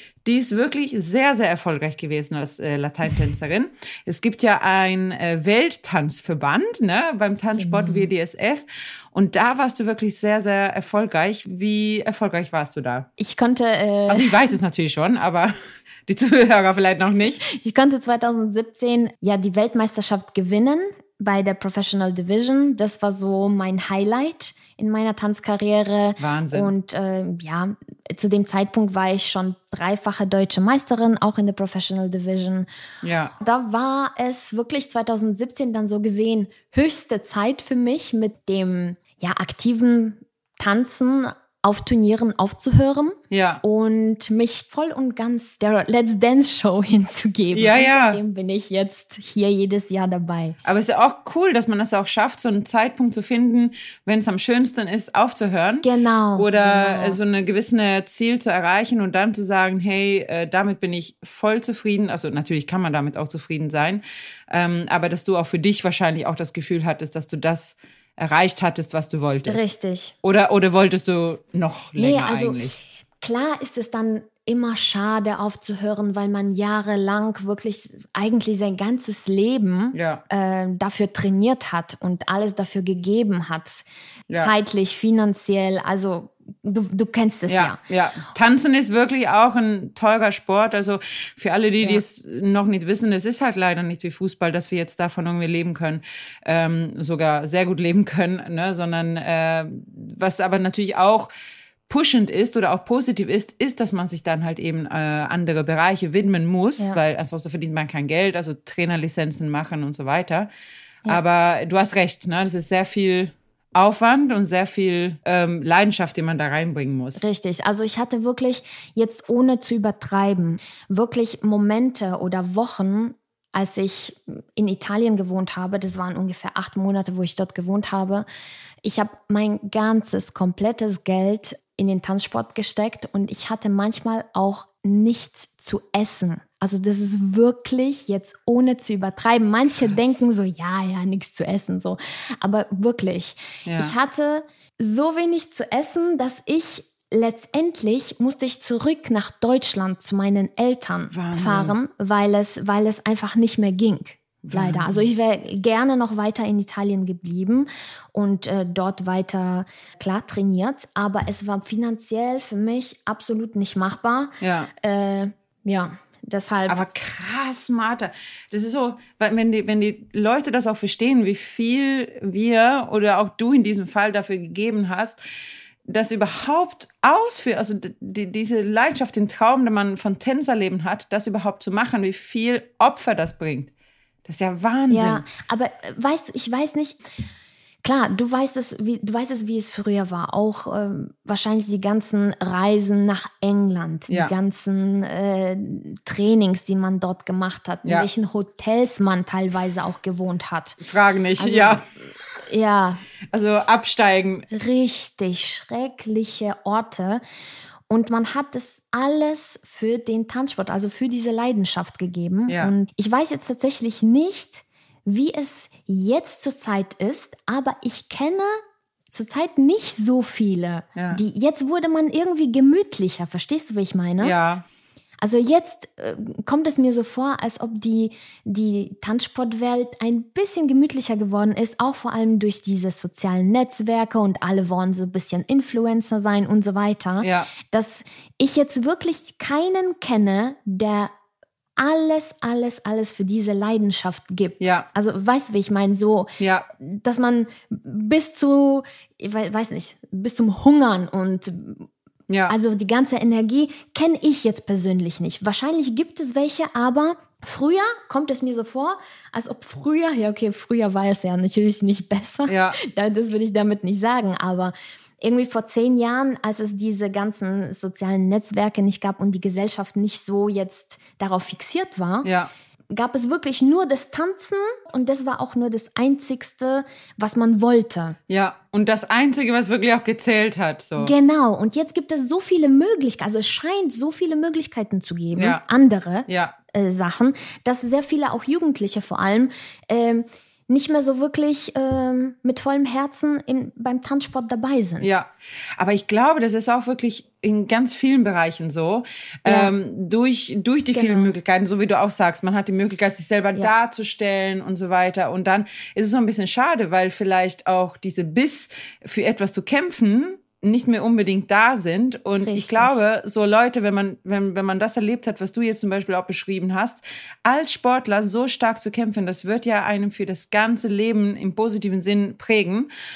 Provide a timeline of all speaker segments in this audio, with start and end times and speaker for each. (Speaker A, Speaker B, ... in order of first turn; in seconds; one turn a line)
Speaker A: 0.2-13.1
Speaker B: 7.6-8.1
Speaker B: 13.2-14.3
Speaker A: 14.1-15.5
Speaker A: 16.1-17.4
Speaker B: 17.4-32.7
Speaker A: 26.2-26.7
Speaker A: 33.0-33.3
Speaker B: 33.4-50.6
Speaker A: 43.3-43.6
Speaker A: 47.5-48.2
Speaker A: 50.6-69.7
Speaker B: 55.8-57.2
Speaker B: 69.5-70.1
Speaker A: 70.2-72.8
Speaker B: 72.0-83.8
Speaker A: 79.9-80.2
Speaker B: 84.4-87.8
Speaker A: 87.5-101.3
Speaker A: 101.9-110.5
Speaker A: 111.1-117.2
Speaker B: 117.2-128.3
Speaker B: 128.8-166.8
Speaker A: 143.7-143.9
Speaker A: 151.1-151.8
Speaker A: 154.4-155.1
Speaker A: 164.4-164.7
Speaker A: 166.7-175.2
Speaker A: 175.9-183.7
Speaker A: 184.2-185.3
Speaker B: 184.9-187.0
Speaker B: 187.8-200.8
Speaker A: 194.1-194.3
Speaker A: 200.8-201.8
Speaker B: 201.4-201.9
Speaker B: 202.5-203.0
Speaker A: 203.3-204.5
Speaker B: 204.5-207.2
Speaker B: 207.9-224.4
Speaker A: 212.5-212.7
Speaker A: 221.0-221.2
Speaker A: 224.2-224.6
Speaker B: 225.2-241.1
Speaker A: 237.2-237.5
Speaker B: 241.8-251.9
Speaker A: 244.6-244.9
Speaker A: 246.4-246.7
Speaker A: 252.3-252.6
Speaker B: 252.5-272.3
Speaker A: 262.5-262.8
Speaker A: 272.2-272.5
Speaker B: 272.9-278.2
Speaker A: 278.3-281.1
Speaker B: 281.0-295.2
Speaker A: 285.4-285.6
Speaker A: 286.3-286.6
Speaker A: 295.0-322.9
Speaker B: 299.5-299.7
Speaker B: 300.9-301.4
Speaker B: 312.4-313.0